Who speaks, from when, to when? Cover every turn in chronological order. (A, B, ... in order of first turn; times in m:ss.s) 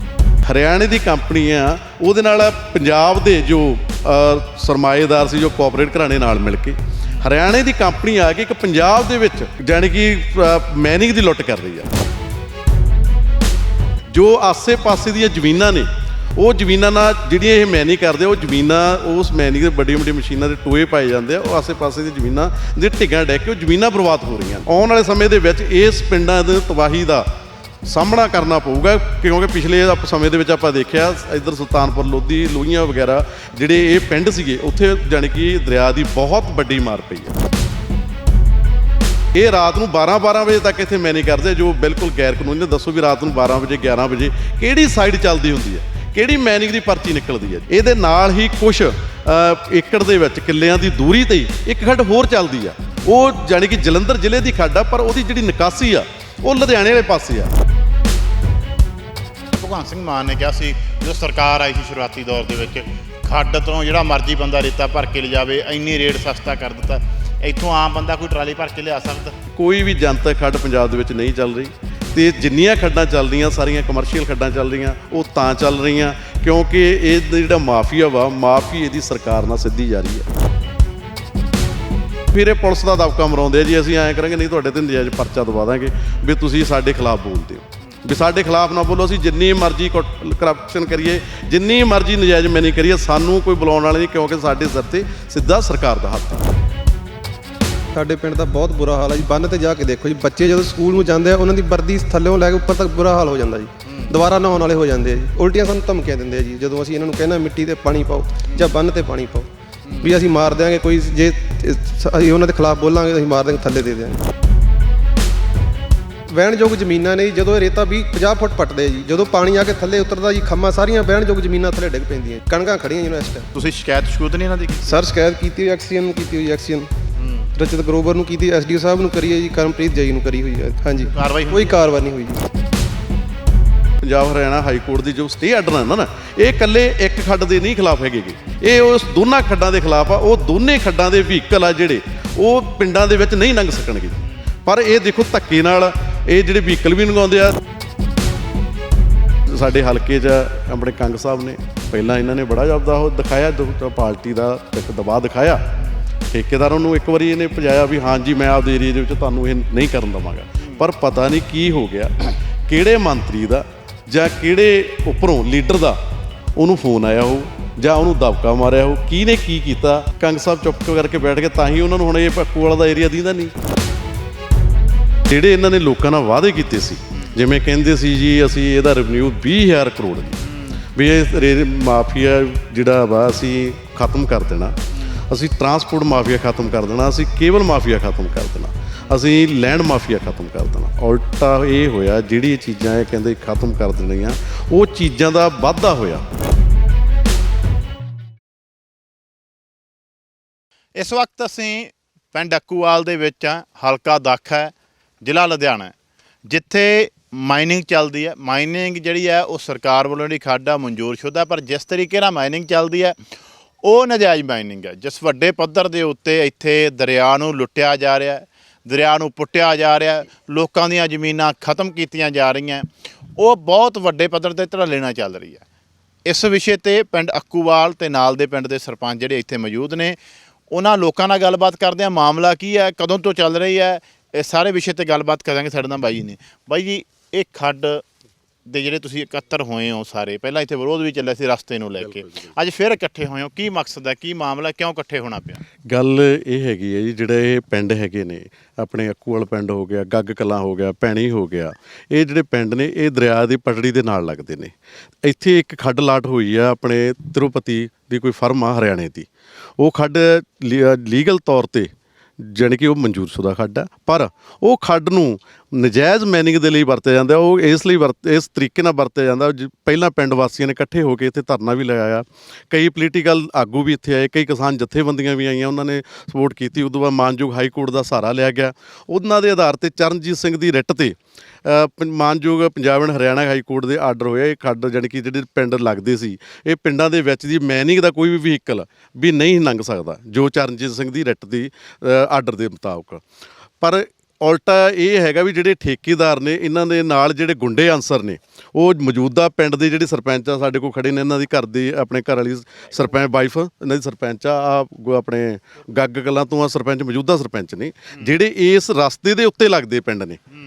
0:00.4-0:11.9 A
0:14.1-0:27.3 A
0:27.8-0:37.4 A
0:39.3-0:57.5 A
0:59.5-1:09.3 B
1:09.5-1:20.3 A
1:22.3-1:36.5 A
1:37.9-1:49.5 C
1:43.8-1:44.1 B
1:48.5-1:48.7 B
1:49.8-1:50.1 B
1:50.0-1:54.2 C
1:56.3-2:03.5 C
2:03.5-2:05.0 B
2:04.8-2:06.9 C
2:07.2-2:07.5 B
2:07.6-2:12.4 C
2:11.1-2:11.8 B
2:14.0-2:27.6 A
2:29.5-2:35.6 A
2:36.3-2:46.0 A
2:46.6-2:53.5 A
2:55.2-3:00.4 A
3:00.4-3:00.8 B
3:00.9-3:04.8 A
3:04.9-3:05.2 B
3:05.3-3:16.2 A
3:21.0-3:25.9 B
3:26.5-3:33.2 B
3:33.8-3:45.6 B
3:46.3-3:50.2 B
3:50.7-3:58.0 B
3:58.6-4:05.6 B
4:05.9-4:14.7 A
4:15.2-4:19.3 A
4:19.8-4:53.2 A
4:53.8-5:10.4 A